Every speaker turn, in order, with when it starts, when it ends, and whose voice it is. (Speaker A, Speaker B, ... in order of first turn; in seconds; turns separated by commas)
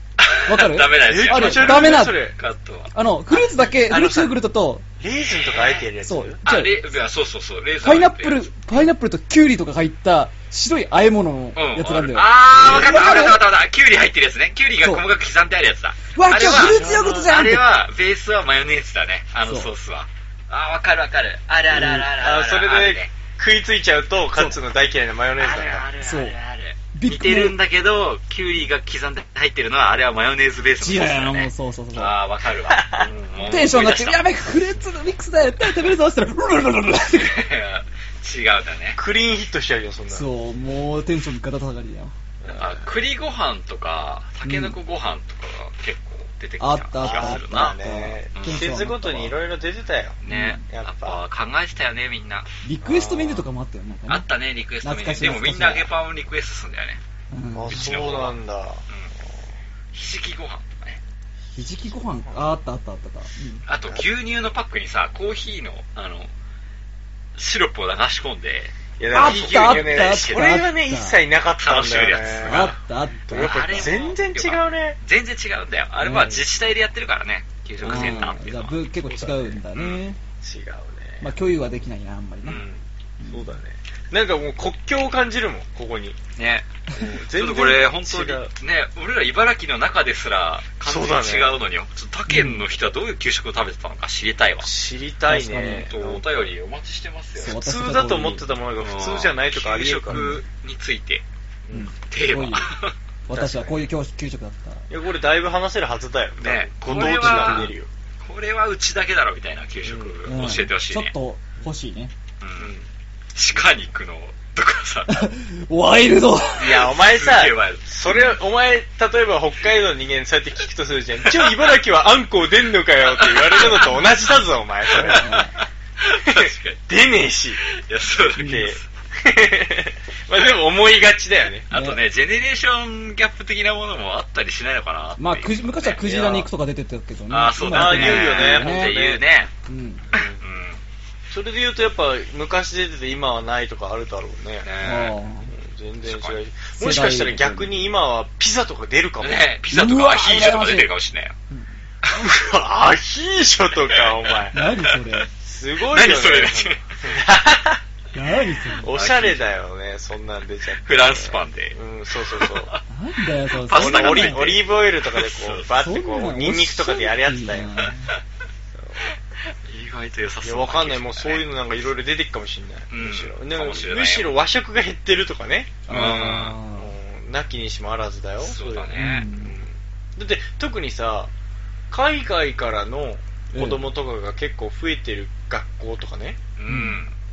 Speaker A: 0.2-2.9, Speaker B: 0.5-2.2, Speaker C: 1.0-2.4, Speaker B: 2.9-4.8, Speaker C: 3.4-4.4, Speaker C: 5.0-6.4, Speaker A: 5.2-5.8, Speaker B: 6.0-6.8, Speaker A: 6.5-8.5, Speaker B: 7.8-13.4, Speaker A: 11.6-23.1, Speaker B: 16.1-17.7, Speaker C: 16.4-17.3, Speaker B: 21.7-22.1, Speaker C: 22.0-25.9, Speaker A: 25.4-34.2, Speaker B: 26.0-26.4, Speaker B: 26.9-27.6, Speaker B: 30.8-32.2, Speaker C: 32.7-33.1, Speaker B: 33.4-37.4, Speaker A: 37.1-39.0, Speaker C: 39.0-40.3, Speaker B: 40.1-42.1, Speaker C: 42.4-42.9, Speaker A: 42.5-47.8, Speaker B: 44.5-44.8, Speaker B: 46.6-49.4, Speaker C: 47.0-51.2, Speaker A: 48.4-48.7, Speaker A: 50.2-52.5, Speaker B: 50.3-50.6, Speaker B: 52.6-54.3, Speaker C: 52.8-53.4, Speaker A: 54.1-57.0, Speaker B: 54.8-55.9, Speaker B: 57.3-57.9, Speaker C: 57.5-58.8, Speaker A: 57.7-58.4, Speaker A: 59.9-61.0, Speaker B: 61.6-63.6, Speaker A: 63.7-66.3, Speaker C: 63.7-64.0, Speaker A: 67.4-70.6, Speaker C: 69.0-75.0, Speaker B: 69.1-71.2, Speaker A: 71.6-72.7, Speaker B: 72.4-73.9, Speaker A: 73.3-78.8, Speaker B: 76.0-76.4, Speaker C: 76.2-76.4, Speaker C: 77.8-78.4, Speaker B: 77.8-80.2, Speaker C: 79.1-79.6, Speaker A: 79.7-80.0, Speaker C: 80.4-81.3, Speaker B: 81.2-82.6, Speaker C: 82.4-86.2, Speaker B: 83.2-83.6, Speaker A: 86.4-86.7, Speaker C: 87.0-88.5, Speaker A: 87.2-94.7, Speaker C: 90.8-91.6, Speaker B: 92.3-92.6, Speaker C: 94.6-96.5, Speaker B: 95.3-95.9, Speaker A: 95.7-97.6, Speaker B: 97.4-98.5, Speaker C: 97.5-100.4, Speaker A: 98.8-101.2, Speaker B: 100.1-100.4, Speaker C: 101.7-101.9, Speaker B: 101.7-102.7, Speaker A: 102.0-102.9, Speaker B: 103.3-104.8, Speaker C: 103.3-103.8, Speaker C: 104.9-107.9, Speaker A: 106.4-111.1, Speaker B: 106.9-107.7, Speaker C: 109.8-110.2, Speaker B: 110.3-112.1, Speaker A: 112.4-112.7, Speaker C: 112.6-112.9, Speaker A: 113.3-115.2, Speaker B: 115.1-116.9, Speaker C: 116.6-125.3, Speaker A: 116.9-117.8, Speaker A: 123.3-123.8, Speaker B: 125.0-125.5, Speaker A: 125.0-126.8, Speaker C: 126.2-127.6, Speaker A: 127.6-128.8, Speaker B: 128.4-128.7, Speaker C: 128.4-131.7, Speaker A: 131.7-136.0, Speaker B: 131.7-132.0, Speaker B: 135.2-139.0, Speaker C: 136.0-136.5, Speaker A: 137.3-139.5, Speaker C: 137.7-139.2, Speaker B: 139.7-140.1, Speaker C: 140.1-140.4, Speaker A: 140.2-140.8, Speaker C: 141.3-144.7, Speaker A: 144.7-145.2, Speaker B: 144.8-145.5, Speaker C: 145.5-149.5, Speaker A: 146.0-146.4, Speaker B: 146.8-147.8, Speaker A: 149.2-151.3, Speaker B: 149.7-150.9, Speaker C: 152.1-154.6, Speaker A: 153.9-155.2, Speaker B: 154.5-155.3, Speaker C: 155.4-157.8, Speaker A: 155.9-156.9, Speaker B: 158.1-158.9, Speaker C: 158.8-162.7, Speaker A: 158.9-159.4, Speaker A: 160.9-162.8, Speaker B: 162.9-164.6, Speaker A: 163.5-165.7, Speaker C: 163.7-167.9, Speaker B: 165.8-168.1, Speaker C: 168.7-169.1, Speaker A: 169.7-171.5, Speaker C: 170.4-176.0, Speaker A: 172.9-174.3, Speaker B: 175.9-176.9, Speaker A: 175.9-176.6, Speaker C: 176.7-181.3, Speaker A: 178.4-179.3, Speaker B: 178.9-179.5, Speaker C: 181.9-186.4, Speaker B: 183.6-183.8, Speaker A: 186.6-187.1, Speaker B: 186.7-187.0